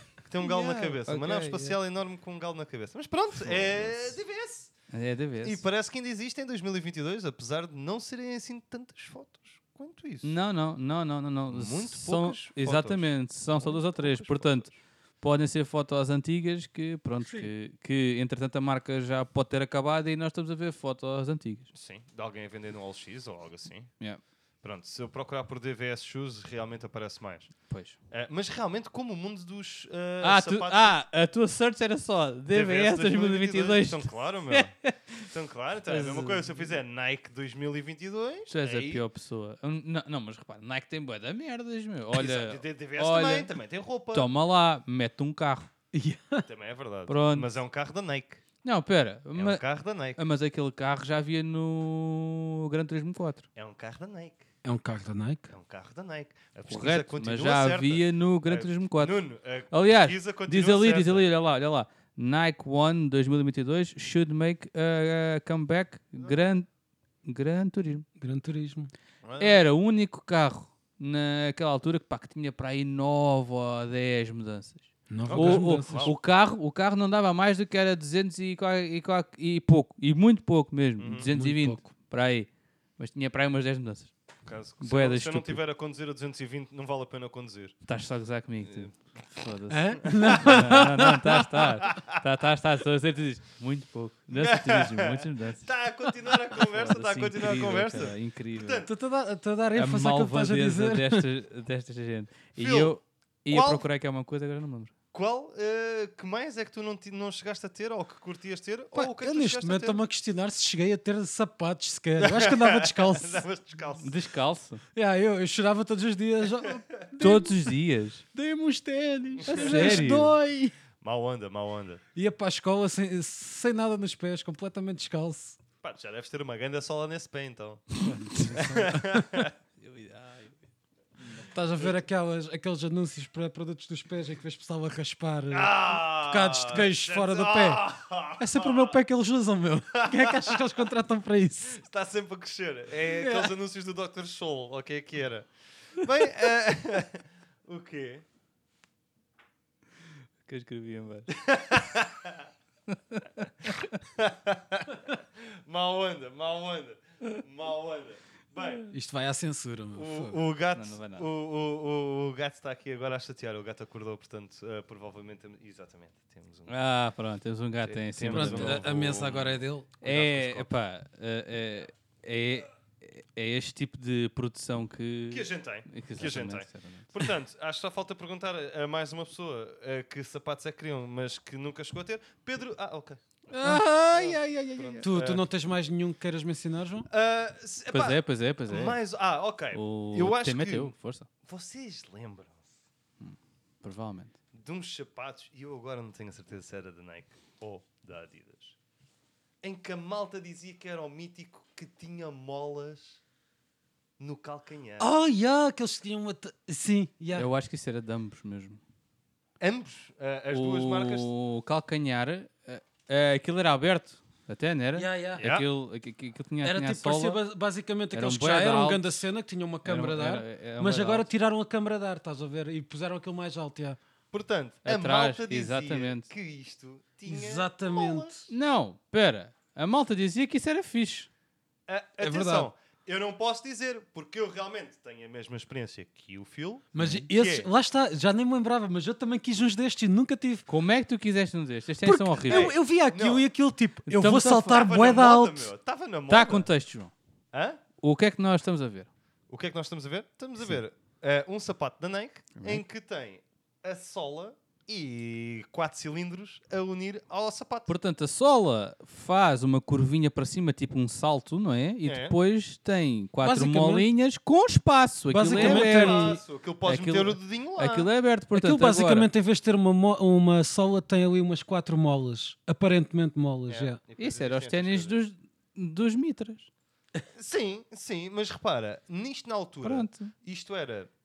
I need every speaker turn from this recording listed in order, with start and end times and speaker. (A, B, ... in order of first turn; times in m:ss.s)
0:00.2-0:04.8 A
0:00.4-0:01.8 B
0:03.4-0:04.1 B
0:04.9-0:05.6 B
0:05.4-0:10.3 A
0:10.2-0:21.7 B
0:11.5-0:14.8 A
0:17.2-0:17.5 C
0:21.7-0:24.0 A
0:24.6-0:31.0 A
0:27.7-0:28.0 B
0:30.2-0:35.3 B
0:32.5-0:39.0 A
0:35.9-0:36.7 B
0:38.5-0:43.5 B
0:42.1-0:44.3 A
0:44.1-0:45.7 B
0:45.9-0:46.5 C
0:46.4-0:48.4 A
0:47.1-0:47.5 B
0:48.6-0:49.6 B
0:49.4-0:50.2 A
0:50.2-0:53.4 B
0:53.6-0:54.5 A
0:54.6-0:55.5 C
0:55.5-1:01.3 A
0:56.7-0:59.2 B
0:59.7-1:06.7 B
1:07.2-1:08.1 B
1:08.2-1:08.9 C
1:09.2-1:09.6 A
1:09.4-1:24.1 B
1:15.1-1:16.1 C
1:15.3-1:16.2 A
1:21.0-1:21.3 A
1:21.3-1:21.8 C
1:24.5-1:27.8 A
1:24.8-1:25.6 B
1:27.9-1:35.7 B
1:28.7-1:28.9 A
1:29.7-1:31.4 C
1:30.1-1:31.0 A
1:31.8-1:32.2 A
1:34.4-1:38.9 A
1:36.5-1:38.9 B
1:38.8-1:41.3 C
1:39.7-1:44.9 B
1:42.6-1:43.0 A
1:43.5-1:43.9 A
1:45.1-1:50.0 A
1:48.9-1:53.5 C
1:52.2-1:54.2 A
1:54.0-1:54.8 B
1:55.0-1:57.7 C
1:57.2-1:58.2 B
1:58.3-2:00.8 C
1:59.4-2:00.2 A
1:59.5-2:00.3 B
2:01.0-2:02.0 A
2:02.2-2:05.6 C
2:05.8-2:09.5 A
2:08.2-2:09.3 C
2:09.8-2:10.6 B
2:11.4-2:17.8 C
2:15.5-2:18.9 A
2:18.4-2:21.8 C
2:19.9-2:20.6 A
2:21.8-2:28.2 A
2:23.1-2:23.5 C
2:30.5-2:31.3 B
2:31.3-2:32.5 A
2:32.9-2:33.9 B
2:34.2-2:38.9 A
2:38.9-2:40.4 C
2:40.0-2:46.8 A
2:40.7-2:41.3 B
2:46.7-2:48.9 B
2:47.8-2:50.7 A
2:48.3-2:50.0 C
2:50.0-2:57.1 B
2:55.3-3:03.4 A
3:03.5-3:05.1 B
3:03.6-3:03.9 C
3:04.1-3:05.4 A
3:05.0-3:07.1 C
3:07.1-3:12.7 A
3:07.9-3:09.0 B
3:09.7-3:11.3 B
3:13.2-3:14.4 B
3:14.5-3:18.8 A
3:19.6-3:23.2 A
3:24.2-3:25.1 A
3:25.0-3:27.5 C
3:27.4-3:28.8 B
3:29.6-3:31.3 A
3:30.5-3:37.4 B
3:35.0-3:35.5 C
3:35.4-3:35.7 A
3:36.6-3:44.0 C
3:38.1-3:39.2 B
3:39.8-3:41.3 B
3:44.3-3:48.5 A
3:44.8-3:46.3 B
3:47.3-3:48.4 C
3:48.5-3:51.3 B
3:51.9-3:57.7 A
3:52.2-3:52.7 C
3:56.9-4:00.7 C
4:00.7-4:02.7 B
4:02.0-4:05.7 C
4:02.5-4:03.4 A
4:04.1-4:04.5 B
4:04.2-4:06.7 A
4:06.3-4:07.1 B
4:07.5-4:07.8 A
4:08.0-4:09.1 B
4:09.5-4:17.9 A
4:12.6-4:12.8 B
4:17.9-4:29.3 B
4:22.0-4:22.4 A
4:23.4-4:24.1 C
4:25.3-4:26.4 C
4:25.5-4:28.1 A
4:28.5-4:34.0 C
4:33.7-4:35.2 A
4:34.2-4:36.7 B
4:37.4-4:41.1 A
4:39.8-4:40.3 B